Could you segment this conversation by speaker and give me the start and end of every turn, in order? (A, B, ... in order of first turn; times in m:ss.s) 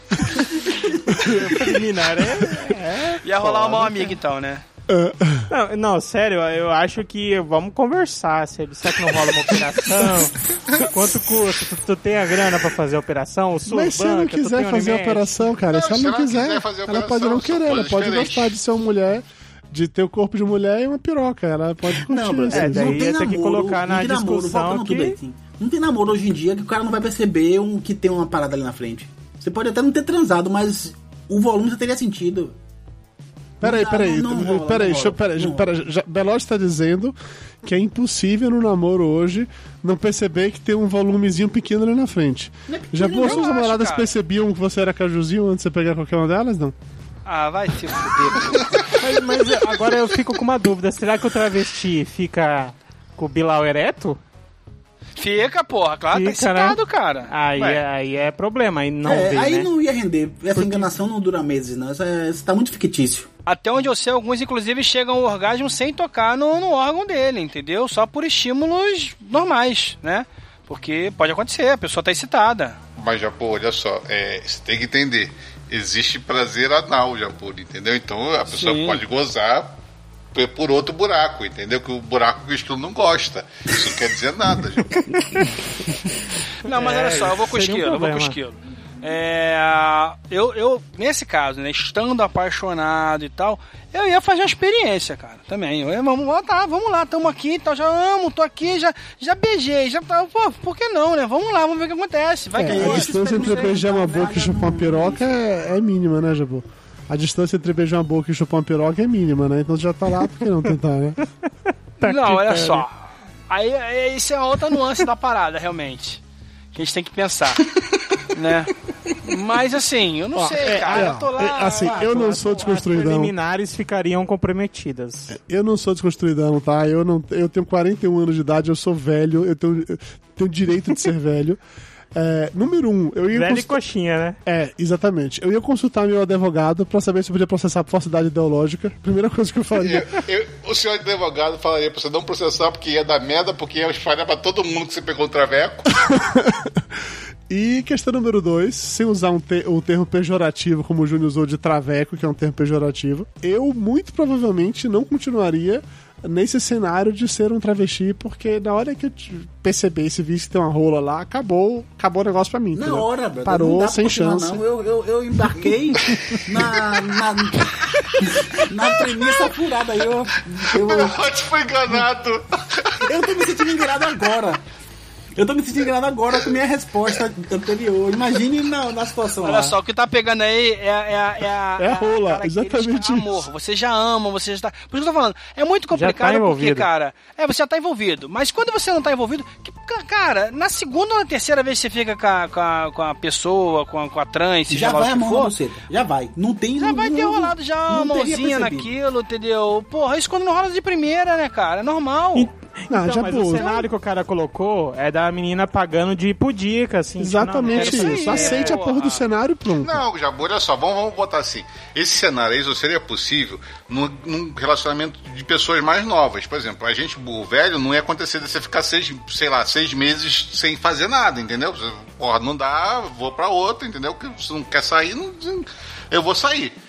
0:01.0-0:03.7 A
0:03.2-0:04.6 B
0:04.9-0:05.5 C
0:05.5-0:15.4 A
0:13.6-0:23.0 C
0:15.7-0:18.5 D
0:22.0-0:32.5 E
0:22.5-0:25.2 A
0:33.6-0:35.7 E
0:33.6-0:46.7 C
0:42.7-0:43.4 E
0:43.2-0:44.1 B
0:47.2-0:48.8 B
0:49.0-0:54.2 A
0:55.2-0:57.8 B
0:56.1-0:56.8 A
0:57.3-0:59.7 A
0:59.0-1:03.3 E
1:00.5-1:00.9 A
1:03.4-1:12.8 B
1:13.0-1:19.7 D
1:18.5-1:19.0 B
1:20.3-1:25.1 D
1:26.6-1:43.7 B
1:26.7-1:28.4 A
1:42.6-1:45.3 E
1:42.6-1:51.2 C
1:52.0-1:52.8 A
1:52.0-1:52.9 B
1:53.5-1:56.2 B
1:56.7-1:57.7 B
1:58.3-1:58.7 B
1:59.2-2:02.2 B
2:00.3-2:03.3 C
2:01.8-2:02.2 E
2:02.1-2:05.3 A
2:05.3-2:11.6 C
2:12.1-2:13.8 C
2:13.3-2:14.4 A
2:14.4-2:20.2 C
2:19.8-2:25.9 D
2:26.0-2:26.8 C
2:27.5-2:44.6 C
2:42.7-2:51.3 E
2:49.1-2:49.5 D
2:50.7-2:53.6 D
2:53.0-2:54.6 E
2:55.3-2:59.7 E
2:59.4-3:15.5 B
3:01.8-3:03.5 C
3:05.9-3:06.8 A
3:14.7-3:18.9 E
3:16.8-3:22.5 B
3:22.3-3:28.8 A
3:22.9-3:23.8 C
3:27.2-3:30.0 C
3:27.7-3:29.2 B
3:29.8-3:46.8 D